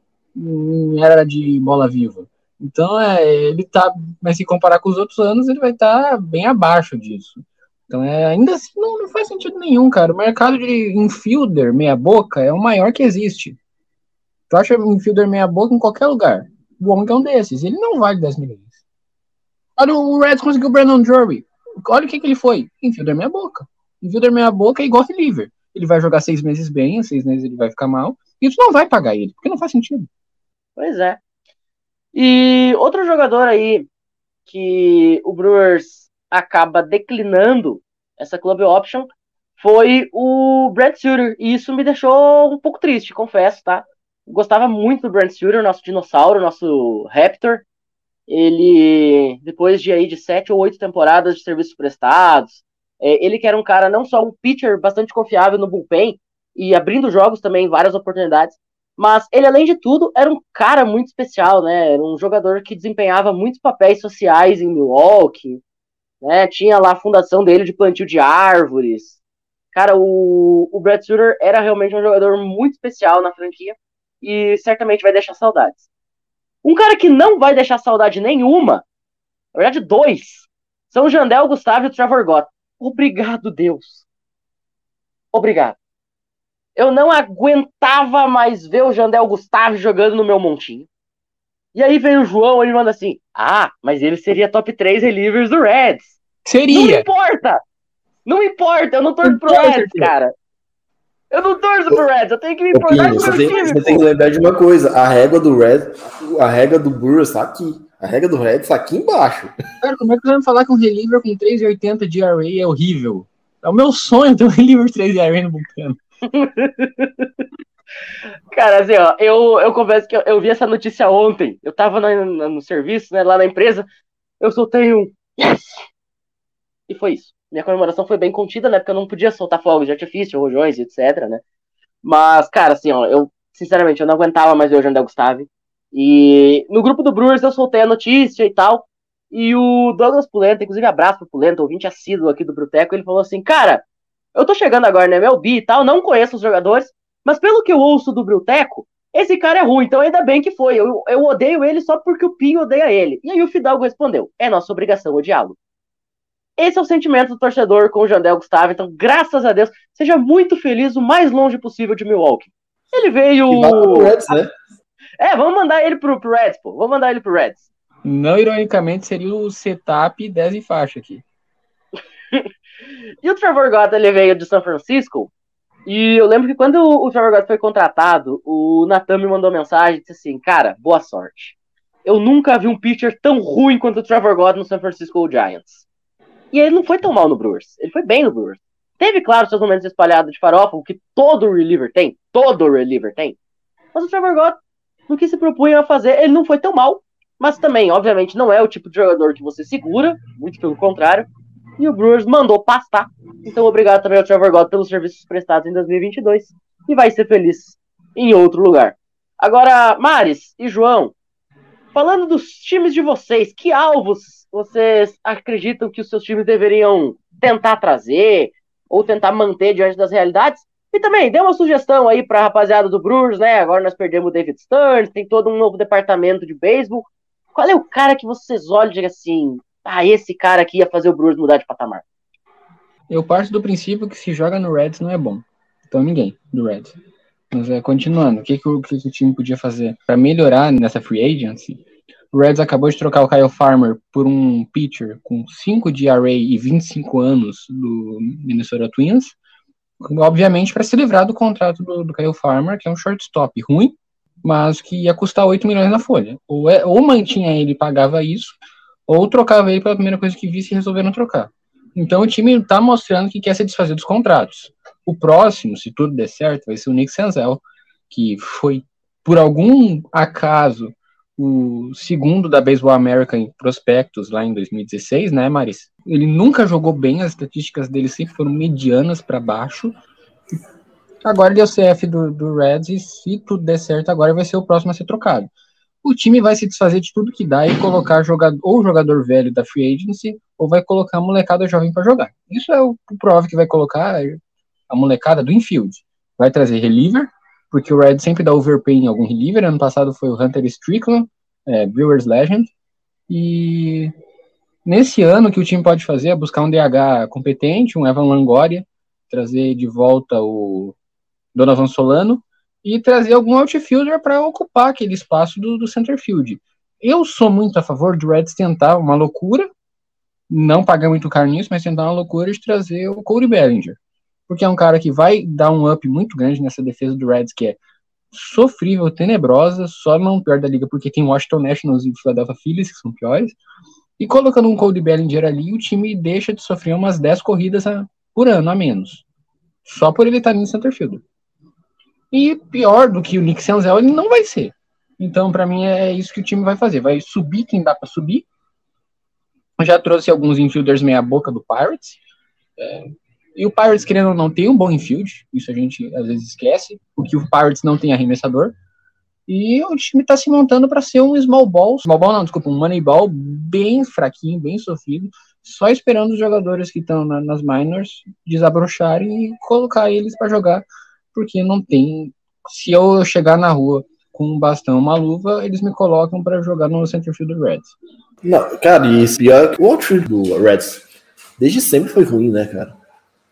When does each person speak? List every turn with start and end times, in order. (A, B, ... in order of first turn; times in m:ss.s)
0:00.4-0:13.6 A
0:14.5-0:18.7 A
0:19.8-0:30.1 A
0:30.8-0:31.2 B
0:32.1-0:33.9 B
0:34.5-0:47.6 B
0:48.3-1:05.6 B
1:06.2-1:09.2 B
1:09.7-1:15.9 B
1:16.6-1:18.8 B
1:19.5-1:24.0 B
1:25.3-1:25.8 B
1:26.8-1:30.9 B
1:31.7-1:36.2 B
1:36.4-1:37.1 A
1:36.7-1:37.6 B
1:38.3-1:40.3 B
1:39.2-1:40.1 A
1:41.3-1:44.0 B
1:42.7-1:49.5 C
1:43.2-1:43.7 A
1:49.8-1:56.0 A
1:56.3-1:57.3 B
1:58.5-2:03.9 B
2:04.4-2:05.8 B
2:06.9-2:11.4 B
2:12.0-2:23.8 B
2:24.4-2:35.6 B
2:36.6-2:44.2 B
2:43.5-2:44.5 C
2:45.2-2:47.6 B
2:48.0-2:51.2 A
2:53.2-2:55.3 B
2:55.9-3:05.8 B
3:06.5-3:13.4 B
3:14.0-3:31.1 B
3:31.9-3:52.0 B
3:53.1-3:56.9 A
3:57.5-4:09.4 A
4:10.0-4:39.9 A
4:41.2-4:45.5 A
4:46.0-5:02.7 A
5:03.3-5:04.1 A
5:04.8-5:11.0 A
5:11.5-5:19.7 A
5:20.5-5:27.8 A
5:28.3-5:33.6 A
5:34.2-5:39.2 A
5:39.8-5:41.2 A
5:42.3-5:48.5 A
5:49.8-5:52.2 A
5:52.8-5:58.8 A
5:59.5-6:17.9 A
6:18.4-6:21.0 C
6:21.6-6:22.9 C